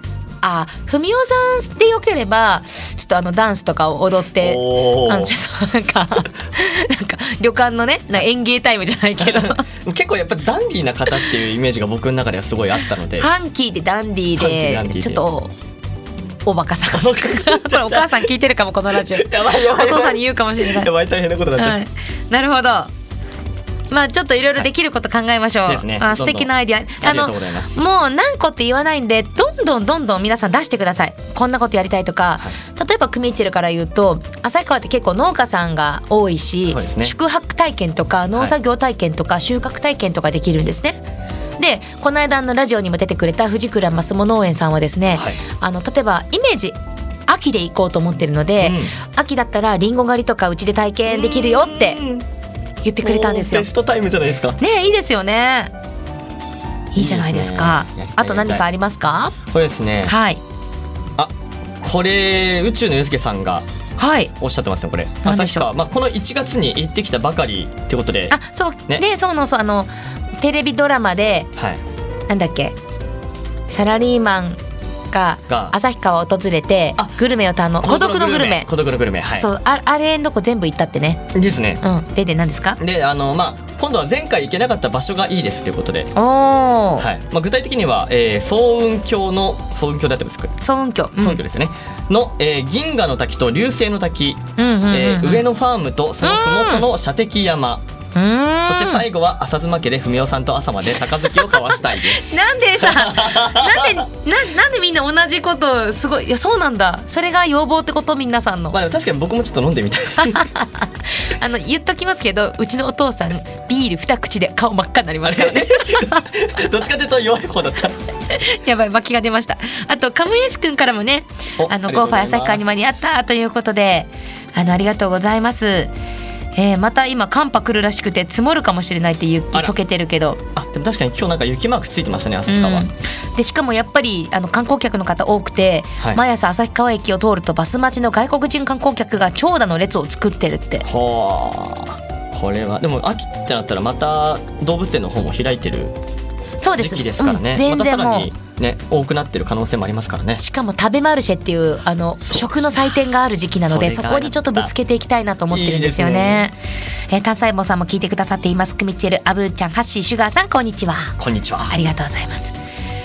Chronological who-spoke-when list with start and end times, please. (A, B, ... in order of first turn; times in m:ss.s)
0:00.4-0:09.6 A
0:04.4-0:05.4 B
0:09.2-0:13.3 B
0:13.2-0:15.5 A
0:14.4-0:15.2 B
0:16.4-0:20.9 A
0:16.9-0:18.2 B
0:18.9-0:21.8 B
0:21.6-0:22.9 A
0:23.9-0:41.0 A
0:25.7-0:26.5 B
0:27.0-0:27.8 B
0:36.7-0:37.1 B
0:41.6-0:46.8 A
0:45.1-0:45.4 B
0:47.3-0:52.0 A
0:48.6-0:49.0 B
0:51.1-0:52.2 B
0:52.8-0:53.7 A
0:53.0-0:54.6 B
0:54.6-0:55.7 A
0:56.9-0:59.4 A
0:57.0-0:58.6 B
0:59.5-1:00.1 B
1:00.0-1:00.4 A
1:01.2-1:03.7 B
1:04.0-1:04.3 A
1:04.4-1:08.3 B
1:05.2-1:05.7 A
1:08.3-1:11.5 A
1:11.6-1:11.8 B
1:12.3-1:12.8 A
1:13.7-1:14.6 A
1:15.1-1:18.7 A
1:15.5-1:15.8 B
1:17.8-1:19.5 B
1:19.2-1:21.2 A
1:21.3-1:21.8 B
1:21.8-1:22.8 A
1:22.8-1:26.1 B
1:26.1-1:27.1 A
1:27.0-1:30.5 B
1:30.6-1:31.4 A
1:31.2-1:37.8 B
1:34.6-1:35.4 A
1:36.2-1:36.9 A
1:38.1-1:39.0 A
1:38.6-1:44.0 B
1:41.2-1:48.8 A
1:48.7-1:50.4 B
1:50.2-1:56.2 A
1:55.2-1:58.0 B
1:58.3-2:05.9 A
2:01.6-2:02.7 B
2:06.5-2:10.4 A
2:10.6-2:12.9 B
2:12.5-2:20.8 A
2:20.8-2:25.9 B
2:26.6-2:28.3 A
2:26.8-2:30.4 B
2:30.4-2:36.6 A
2:32.2-2:32.9 B
2:33.6-2:34.7 B
2:35.5-2:36.4 B
2:37.1-2:41.2 A
2:41.2-2:41.8 B
2:41.7-2:42.5 A